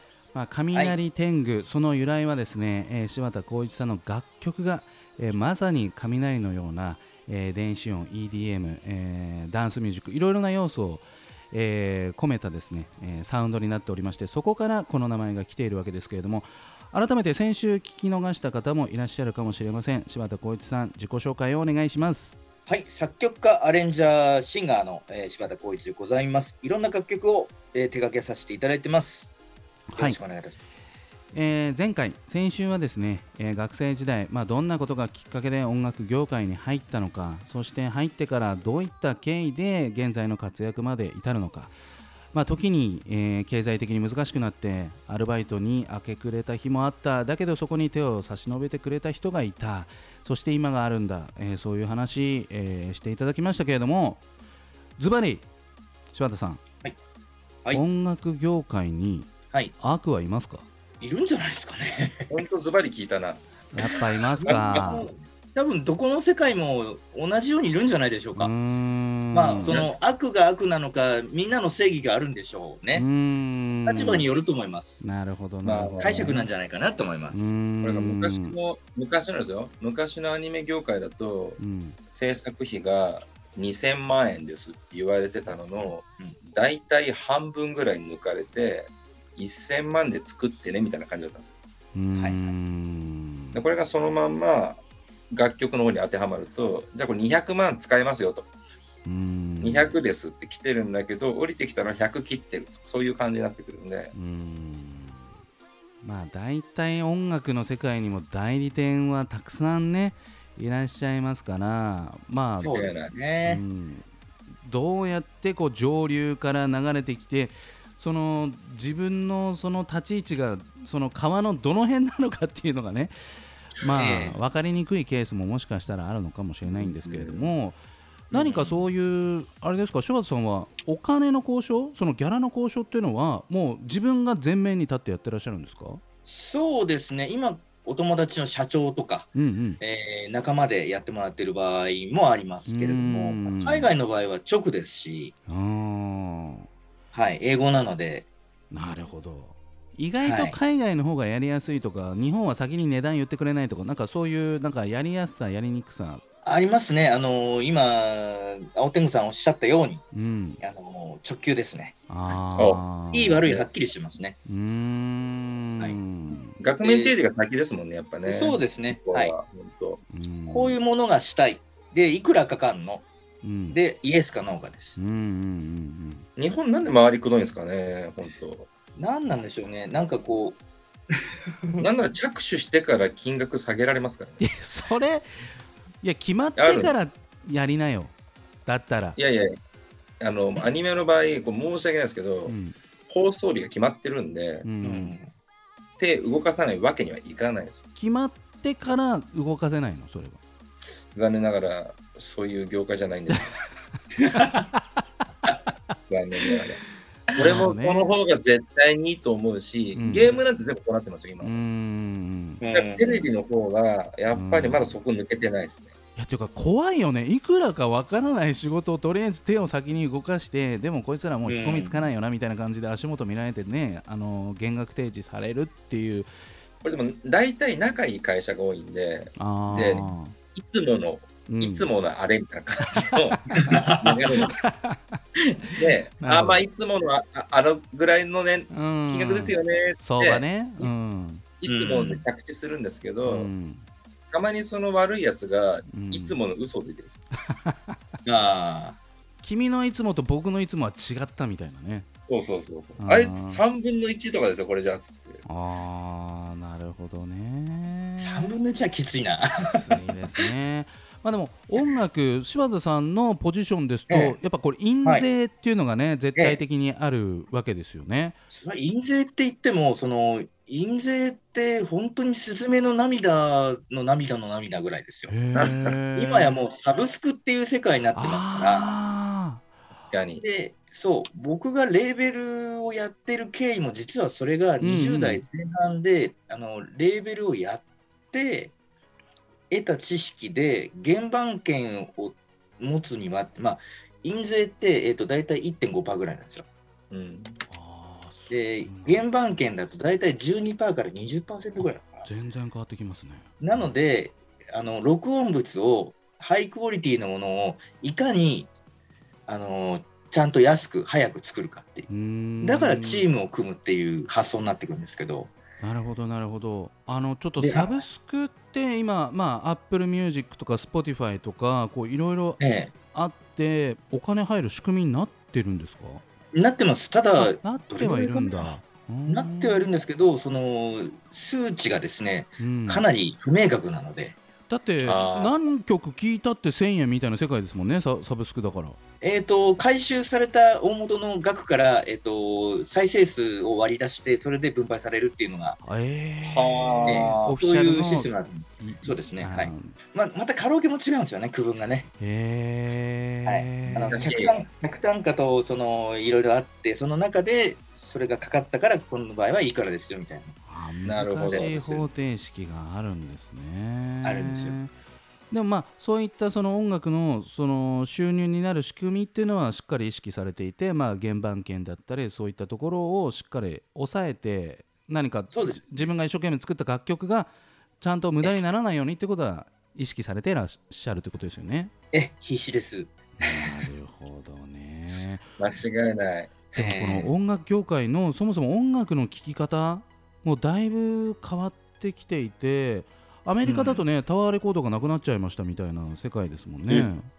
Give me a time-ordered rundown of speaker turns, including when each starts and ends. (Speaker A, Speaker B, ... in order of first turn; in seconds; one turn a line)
Speaker A: 0.3-22.4
Speaker B: 22.7-29.3
Speaker A: 29.9-30.2
Speaker B: 30.0-30.6
Speaker A: 31.3-41.8
Speaker A: 42.3-54.2
Speaker A: 55.0-55.5
Speaker A: 56.1-56.6
Speaker A: 57.7-60.6
Speaker B: 61.0-62.3
Speaker C: 62.3-63.5
Speaker A: 63.7-65.1
Speaker B: 64.4-68.5
Speaker C: 64.4-65.0
Speaker A: 68.3-69.8
Speaker B: 69.3-73.1
Speaker C: 69.6-69.9
Speaker A: 72.9-74.3
Speaker B: 73.8-75.0
Speaker A: 75.0-76.5
Speaker C: 75.6-76.4
Speaker B: 76.0-77.5
Speaker A: 77.3-78.5
Speaker C: 77.8-81.6
Speaker A: 81.6-82.0
Speaker C: 82.1-91.5
Speaker A: 91.9-93.6
Speaker B: 92.2-92.4
Speaker C: 93.5-98.5
Speaker A: 99.0-99.9
Speaker C: 99.6-104.1
Speaker A: 104.1-105.2
Speaker A: 106.0-112.7
Speaker C: 112.6-113.1
Speaker B: 112.6-113.6
Speaker A: 113.4-114.1
Speaker A: 114.6-123.1
Speaker A: 123.8-127.8
Speaker B: 123.9-124.4
Speaker C: 126.7-127.5
Speaker B: 128.3-128.8
Speaker A: 128.3-136.0
Speaker B: 136.3-145.3
Speaker A: 139.3-139.8
Speaker A: 142.7-143.9
Speaker A: 145.5-146.7
Speaker B: 147.1-148.3
Speaker A: 148.7-156.2
Speaker B: 150.2-150.6
Speaker B: 156.4-160.0
Speaker A: 160.1-160.6
Speaker B: 160.6-162.0
Speaker A: 162.1-163.4
Speaker C: 162.6-162.8
Speaker B: 163.1-164.4
Speaker A: 164.5-166.6
Speaker C: 166.6-170.0
Speaker B: 166.8-167.2
Speaker B: 168.2-169.3
Speaker A: 170.1-170.8
Speaker B: 170.5-173.0
Speaker A: 173.4-173.8
Speaker B: 173.7-175.0
Speaker A: 175.0-176.2
Speaker C: 176.4-178.7
Speaker B: 179.0-180.6
Speaker C: 181.8-184.4
Speaker A: 184.4-185.3
Speaker A: 186.0-188.1
Speaker C: 186.6-186.9
Speaker A: 188.7-189.2
Speaker C: 189.2-189.5
Speaker C: 190.2-192.5
Speaker A: 192.5-192.8
Speaker C: 193.1-194.7
Speaker A: 194.6-195.2
Speaker B: 194.8-195.3
Speaker C: 196.0-197.8
Speaker A: 198.0-200.4
Speaker C: 201.1-203.5
Speaker A: 204.3-204.8
Speaker C: 206.1-206.8
Speaker C: 207.3-211.6
Speaker A: 207.4-208.1
Speaker A: 210.0-210.4
Speaker A: 211.4-212.6
Speaker B: 212.6-213.2
Speaker C: 212.7-215.9
Speaker A: 214.3-215.0
Speaker A: 216.2-226.3
Speaker B: 221.4-222.1
Speaker C: 226.8-234.5
Speaker A: 229.4-230.3
Speaker A: 231.5-231.9
Speaker B: 233.6-234.4
Speaker A: 234.5-235.2
Speaker C: 235.8-240.9
Speaker A: 236.2-236.6
Speaker A: 238.7-241.4
Speaker C: 241.6-243.5
Speaker B: 241.7-242.2
Speaker A: 243.2-243.8
Speaker C: 244.3-247.2
Speaker A: 245.9-246.4
Speaker A: 247.5-248.0
Speaker B: 248.2-249.0
Speaker A: 249.4-252.1
Speaker C: 252.3-255.4
Speaker A: 253.0-253.6
Speaker A: 255.5-258.6
Speaker B: 258.2-259.8
Speaker A: 259.7-268.4
Speaker B: 264.1-264.4
Speaker B: 268.5-278.9
Speaker A: 275.3-276.6
Speaker C: 275.5-276.0
Speaker A: 278.1-279.7
Speaker C: 280.1-280.4
Speaker B: 280.4-288.7
Speaker A: 284.8-285.4
Speaker B: 289.7-296.7
Speaker C: 297.1-297.6
Speaker A: 297.7-299.2
Speaker B: 298.5-302.3
Speaker A: 302.2-303.5
Speaker B: 303.6-308.7
Speaker B: 309.5-312.1
Speaker A: 312.1-313.3
Speaker B: 312.6-315.5
Speaker A: 315.8-322.6
Speaker B: 317.6-318.0
Speaker B: 322.6-322.9
Speaker A: 323.1-326.2
Speaker B: 326.5-334.4
Speaker A: 327.4-329.9
Speaker A: 332.6-333.1
Speaker A: 334.7-339.0
Speaker C: 335.0-335.5
Speaker B: 339.2-345.8
Speaker A: 345.8-350.0
Speaker C: 346.4-347.5
Speaker B: 347.1-352.1
Speaker A: 352.2-354.3
Speaker B: 353.4-360.6
Speaker C: 354.1-354.5
Speaker A: 360.7-364.9
Speaker C: 361.0-361.7
Speaker B: 361.5-362.0
Speaker B: 364.2-364.8
Speaker A: 365.5-381.9
Speaker B: 375.5-376.0
Speaker B: 382.1-383.9
Speaker A: 383.4-385.4
Speaker C: 385.6-386.7
Speaker A: 386.8-397.3
Speaker B: 386.8-387.3
Speaker B: 393.6-394.0